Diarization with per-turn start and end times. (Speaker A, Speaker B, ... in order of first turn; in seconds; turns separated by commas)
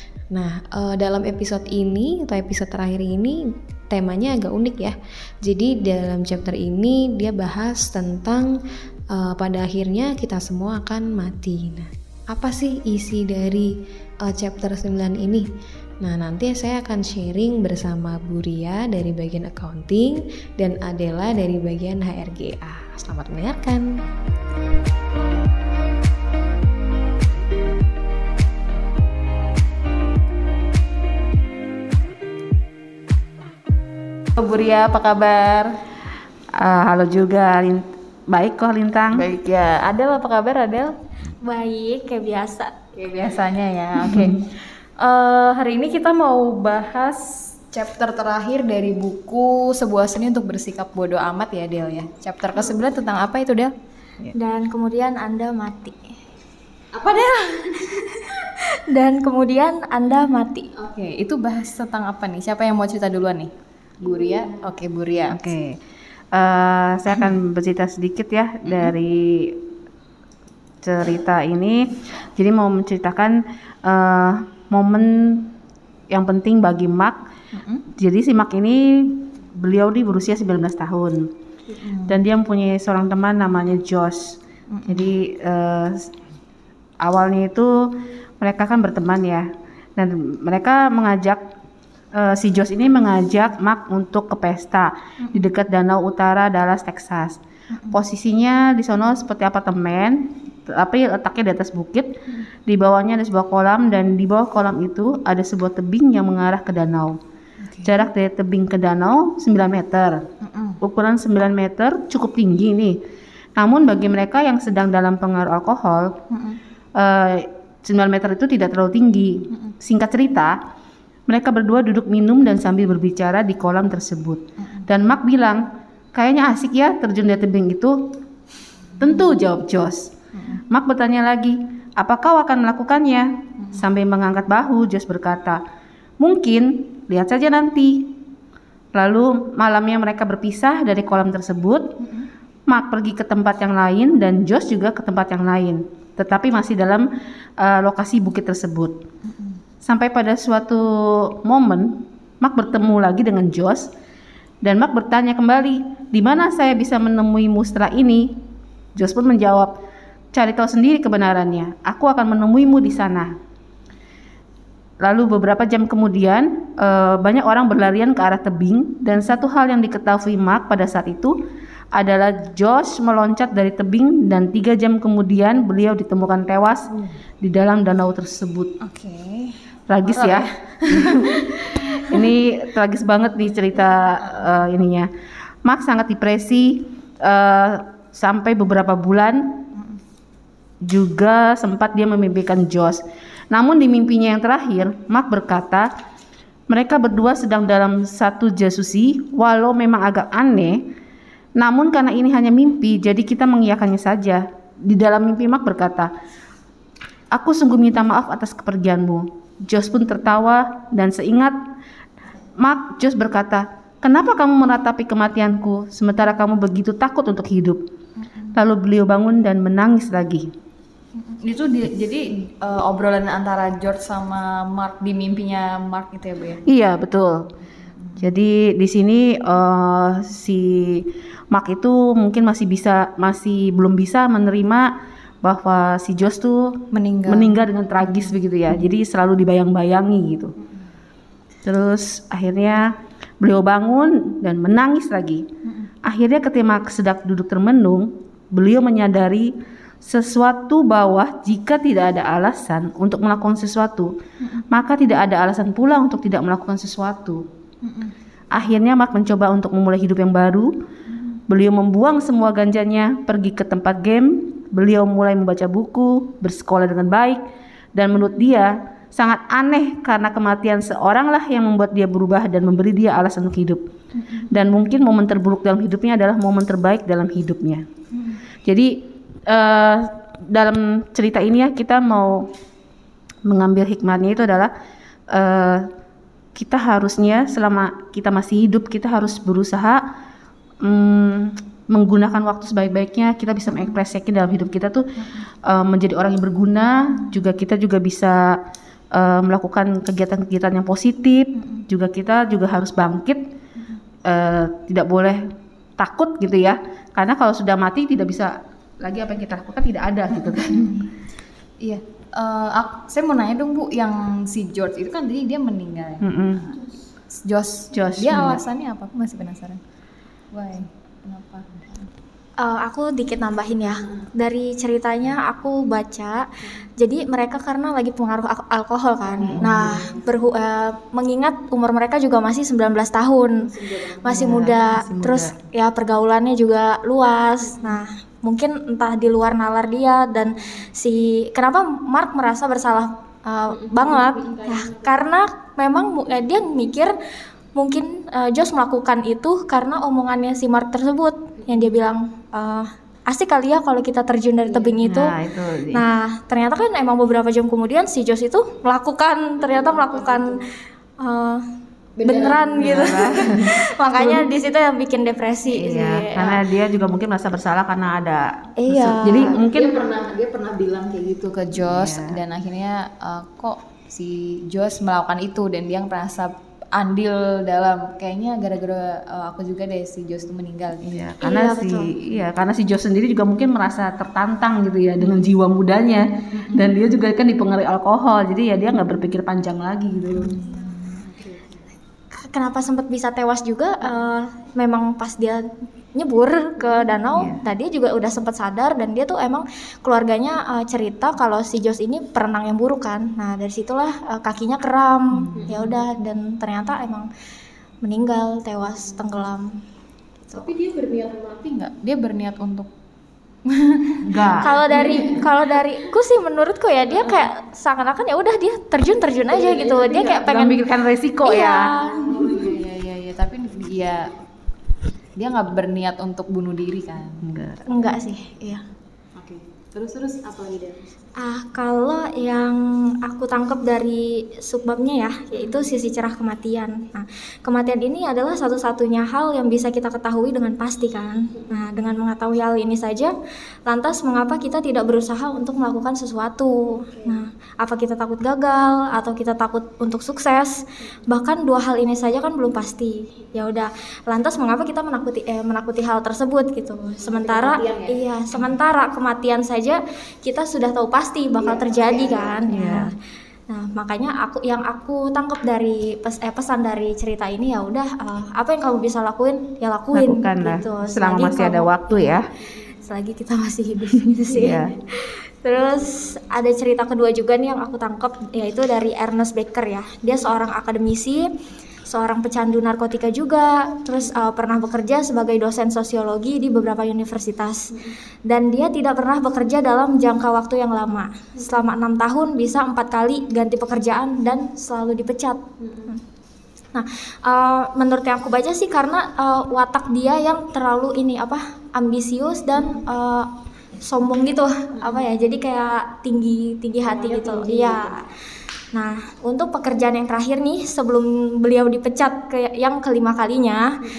Speaker A: 0.3-3.4, Speaker A: 3.9-8.5, Speaker A: 9.1-13.7, Speaker A: 14.2-15.4, Speaker A: 16.0-23.9, Speaker B: 34.4-35.7, Speaker C: 36.6-39.2, Speaker B: 39.1-40.9, Speaker D: 41.4-42.7, Speaker B: 43.0-53.7, Speaker D: 54.3-56.0, Speaker B: 56.9-58.1, Speaker D: 58.3-60.7, Speaker B: 60.8-63.5, Speaker B: 64.0-65.6, Speaker C: 65.3-65.7, Speaker C: 66.3-69.6, Speaker C: 70.8-75.5, Speaker C: 76.1-77.2, Speaker B: 77.5-77.8, Speaker C: 78.0-81.2, Speaker B: 81.7-82.2, Speaker C: 82.1-86.1, Speaker B: 84.7-85.1, Speaker C: 87.0-87.9, Speaker C: 88.4-91.4, Speaker C: 92.1-97.4, Speaker B: 97.7-98.0, Speaker C: 97.9-102.1, Speaker C: 102.7-107.2, Speaker B: 107.6-108.0, Speaker C: 107.8-110.2, Speaker B: 110.4-110.8, Speaker C: 110.8-113.0, Speaker C: 113.6-116.2, Speaker B: 116.3-116.6, Speaker C: 117.0-120.5, Speaker C: 121.3-128.0, Speaker C: 129.0-130.1, Speaker B: 130.3-130.6, Speaker C: 130.7-135.6, Speaker C: 136.2-138.2, Speaker C: 138.9-142.0, Speaker C: 142.7-147.1, Speaker C: 147.6-148.9, Speaker B: 149.2-149.6, Speaker C: 149.8-153.9, Speaker C: 154.6-158.3, Speaker C: 158.9-159.7, Speaker C: 160.3-163.3, Speaker C: 165.0-171.3, Speaker C: 171.9-178.7, Speaker B: 178.8-182.3, Speaker C: 179.9-185.1, Speaker B: 184.2-184.6, Speaker C: 185.6-189.6, Speaker C: 190.8-195.9, Speaker C: 196.7-200.8, Speaker C: 201.6-206.1, Speaker C: 207.3-211.6, Speaker C: 212.6-217.8, Speaker C: 218.5-220.5, Speaker B: 221.2-226.6, Speaker C: 226.7-227.4, Speaker C: 228.2-234.9, Speaker C: 235.4-240.5, Speaker B: 236.9-237.5, Speaker B: 238.1-238.9, Speaker C: 241.6-245.4, Speaker C: 246.0-249.5, Speaker C: 250.0-254.1, Speaker C: 254.7-257.4, Speaker B: 257.8-258.1, Speaker C: 258.5-260.7, Speaker C: 261.5-267.4, Speaker C: 267.9-273.8, Speaker C: 274.5-277.8, Speaker C: 278.6-278.9, Speaker C: 279.5-282.4, Speaker C: 283.4-284.7, Speaker C: 285.3-285.9, Speaker C: 286.5-290.0, Speaker C: 290.8-298.6, Speaker C: 299.1-303.4, Speaker C: 304.2-310.9, Speaker B: 310.3-311.1, Speaker B: 311.8-316.6, Speaker C: 316.2-316.6, Speaker B: 317.3-319.8, Speaker C: 317.9-318.6, Speaker B: 320.5-322.1, Speaker D: 322.6-347.1, Speaker B: 329.3-330.3, Speaker B: 333.7-335.1, Speaker C: 335.2-335.5, Speaker B: 337.7-338.0, Speaker B: 343.7-345.2, Speaker D: 347.7-360.6, Speaker B: 351.6-352.0, Speaker B: 354.7-355.1, Speaker C: 355.0-356.0, Speaker B: 359.6-360.6, Speaker D: 361.2-361.6, Speaker B: 362.2-363.6, Speaker D: 362.2-366.6, Speaker C: 362.8-364.4, Speaker C: 365.7-370.0, Speaker D: 368.8-369.5, Speaker B: 369.6-381.1, Speaker C: 371.8-372.4, Speaker C: 381.0-390.6, Speaker D: 381.4-382.1, Speaker B: 386.6-386.9, Speaker B: 390.4-391.9, Speaker D: 392.3-407.3, Speaker B: 405.5-405.9, Speaker D: 408.0-409.7, Speaker B: 410.5-412.9, Speaker B: 413.6-415.5, Speaker C: 414.2-414.7, Speaker D: 414.6-420.9, Speaker B: 419.5-420.5, Speaker C: 420.3-421.9, Speaker D: 421.4-422.4, Speaker B: 422.1-424.3, Speaker B: 425.4-427.4, Speaker C: 427.4-427.9, Speaker D: 427.9-428.9, Speaker B: 429.3-431.1, Speaker D: 431.4-443.3, Speaker D: 443.9-463.1, Speaker B: 457.2-458.6, Speaker B: 461.6-462.7, Speaker C: 462.7-463.1, Speaker D: 463.7-481.4, Speaker C: 470.1-472.5, Speaker C: 474.4-474.9, Speaker D: 482.1-487.9, Speaker D: 488.5-496.2, Speaker B: 495.8-496.1, Speaker D: 496.9-503.5, Speaker D: 504.0-508.2, Speaker B: 505.0-505.3, Speaker B: 507.0-508.1, Speaker D: 508.9-513.8